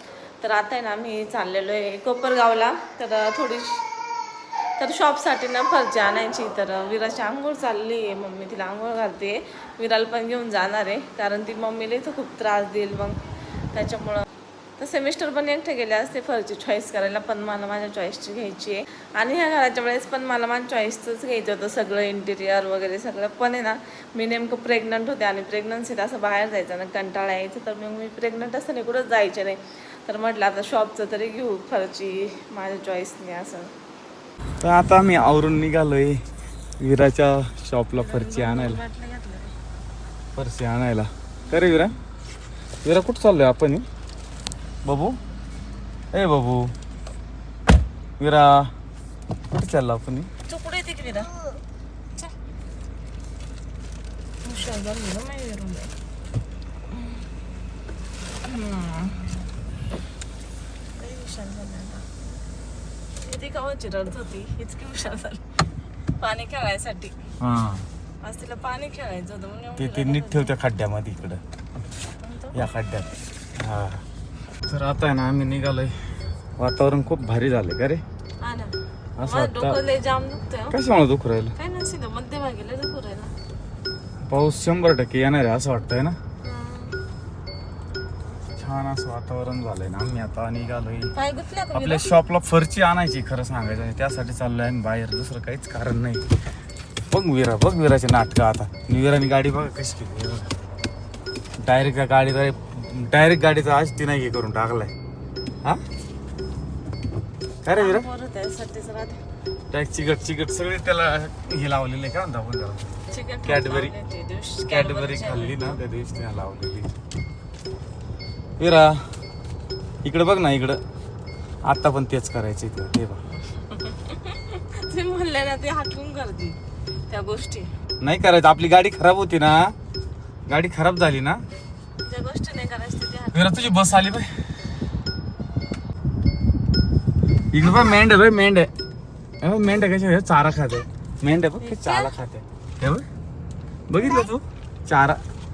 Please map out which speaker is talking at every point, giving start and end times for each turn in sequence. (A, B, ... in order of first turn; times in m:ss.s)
0:00.4-0:03.8 A
0:04.8-0:13.2 A
0:13.7-0:14.3 A
0:14.8-0:33.7 A
0:34.6-0:36.2 B
0:36.8-0:38.8 B
0:37.9-0:39.5 A
0:40.4-0:42.0 B
0:42.8-0:43.8 B
0:44.8-0:45.2 B
0:46.1-0:46.7 B
0:48.2-0:48.7 B
0:49.5-0:50.3 B
0:50.5-0:51.5 A
0:54.4-0:55.9 A
0:58.4-0:59.4 A
1:01.0-1:02.0 A
1:03.2-1:05.4 A
1:06.2-1:07.2 A
1:07.4-1:07.8 B
1:08.2-1:10.5 A
1:09.8-1:11.4 B
1:12.2-1:12.6 A
1:12.5-1:14.0 B
1:14.7-1:16.0 B
1:16.6-1:18.0 B
1:18.4-1:20.8 A
1:19.2-1:19.8 B
1:20.7-1:21.6 B
1:21.6-1:23.3 A
1:24.3-1:26.2 B
1:26.4-1:27.0 A
1:28.6-1:31.2 B
1:31.1-1:32.1 A
1:31.7-1:36.2 B
1:37.1-1:40.5 B
1:41.6-1:44.9 B
1:47.6-1:48.1 B
1:47.7-1:49.2 A
1:49.7-1:52.9 B
1:53.1-1:55.8 A
1:53.4-1:54.0 B
1:54.7-1:56.9 B
1:58.6-1:59.0 B
2:00.0-2:00.8 B
2:01.6-2:03.2 B
2:03.6-2:06.6 A
2:07.1-2:07.7 A
2:08.0-2:09.7 B
2:10.5-2:11.4 B
2:12.0-2:13.7 A
2:13.3-2:14.3 B
2:17.5-2:18.7 B
2:19.4-2:23.0 B
2:21.6-2:22.1 A
2:23.9-2:25.2 B